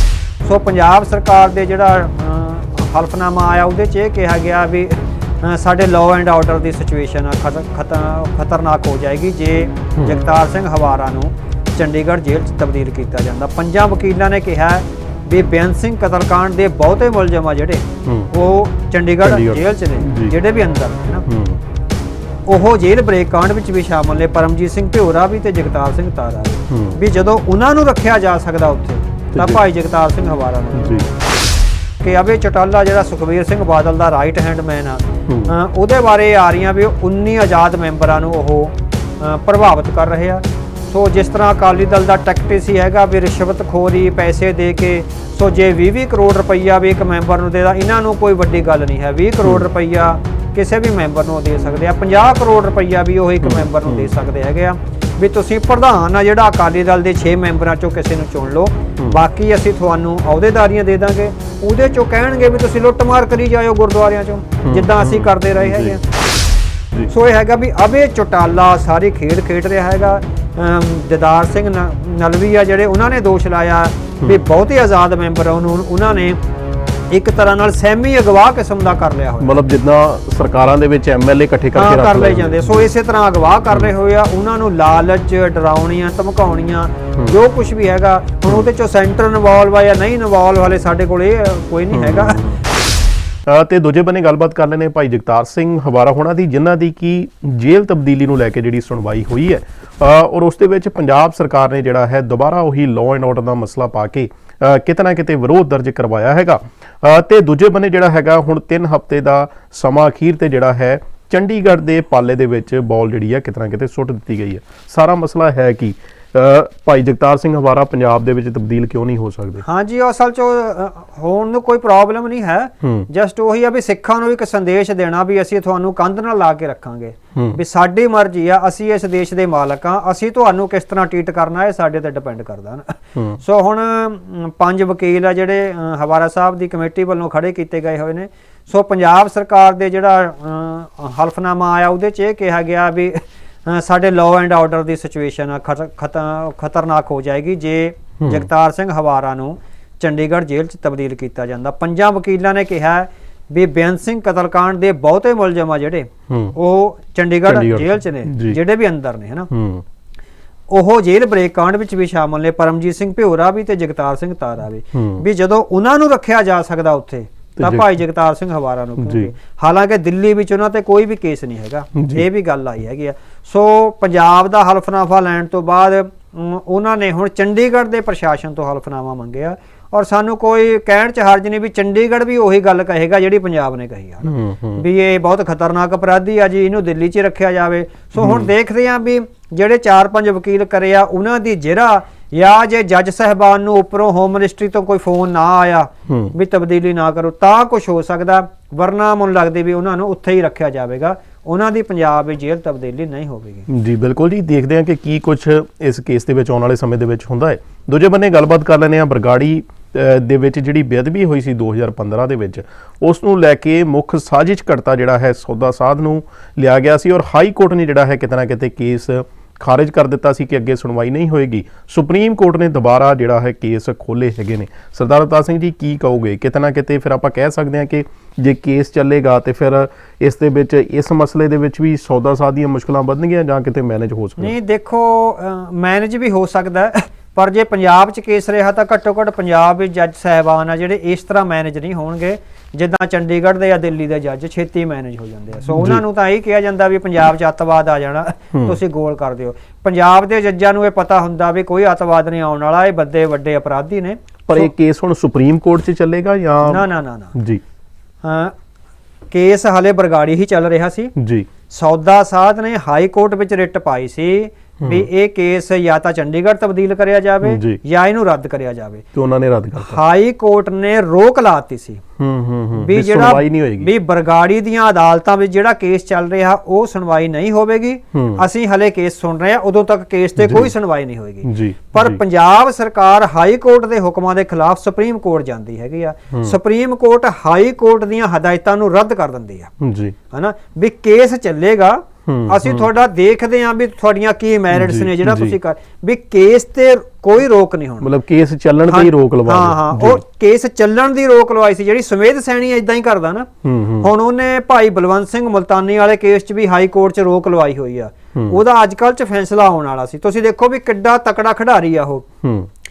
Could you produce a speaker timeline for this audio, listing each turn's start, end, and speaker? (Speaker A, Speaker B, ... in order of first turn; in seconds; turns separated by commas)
Speaker A: 0.4-21.2, Speaker B: 18.1-18.3, Speaker B: 19.2-20.4, Speaker B: 21.3-21.6, Speaker A: 22.5-31.0, Speaker B: 26.7-27.0, Speaker B: 30.7-31.1, Speaker A: 32.0-66.0, Speaker B: 35.3-35.5, Speaker B: 53.4-54.1, Speaker B: 64.6-66.0, Speaker A: 67.1-76.4, Speaker A: 77.1-79.6, Speaker B: 79.4-82.9, Speaker A: 81.7-92.5, Speaker B: 91.9-92.6, Speaker B: 93.5-119.6, Speaker A: 119.6-159.5, Speaker B: 148.2-148.5, Speaker B: 156.3-156.5, Speaker B: 157.5-158.6, Speaker B: 159.5-159.8, Speaker A: 160.7-203.7, Speaker B: 164.9-165.2, Speaker B: 167.6-168.0, Speaker B: 169.0-169.3, Speaker B: 171.9-172.2, Speaker B: 184.2-184.8, Speaker B: 188.2-188.5, Speaker B: 196.1-196.3, Speaker B: 203.7-234.5, Speaker A: 234.4-254.7, Speaker B: 245.7-246.0, Speaker B: 254.5-257.6, Speaker A: 256.6-257.3, Speaker A: 258.2-258.5, Speaker A: 259.3-261.1, Speaker B: 261.1-261.5, Speaker A: 261.7-269.0, Speaker B: 267.4-267.8, Speaker B: 269.1-270.0, Speaker A: 269.8-272.0, Speaker B: 272.2-273.9, Speaker A: 272.8-289.7, Speaker B: 278.1-278.4, Speaker B: 280.4-280.7, Speaker B: 281.4-282.2, Speaker B: 289.8-290.1, Speaker A: 290.3-298.1, Speaker B: 292.3-292.9, Speaker B: 294.7-295.5, Speaker B: 298.0-300.2, Speaker A: 298.9-303.5, Speaker B: 303.6-304.1, Speaker A: 304.0-312.2, Speaker B: 312.4-312.7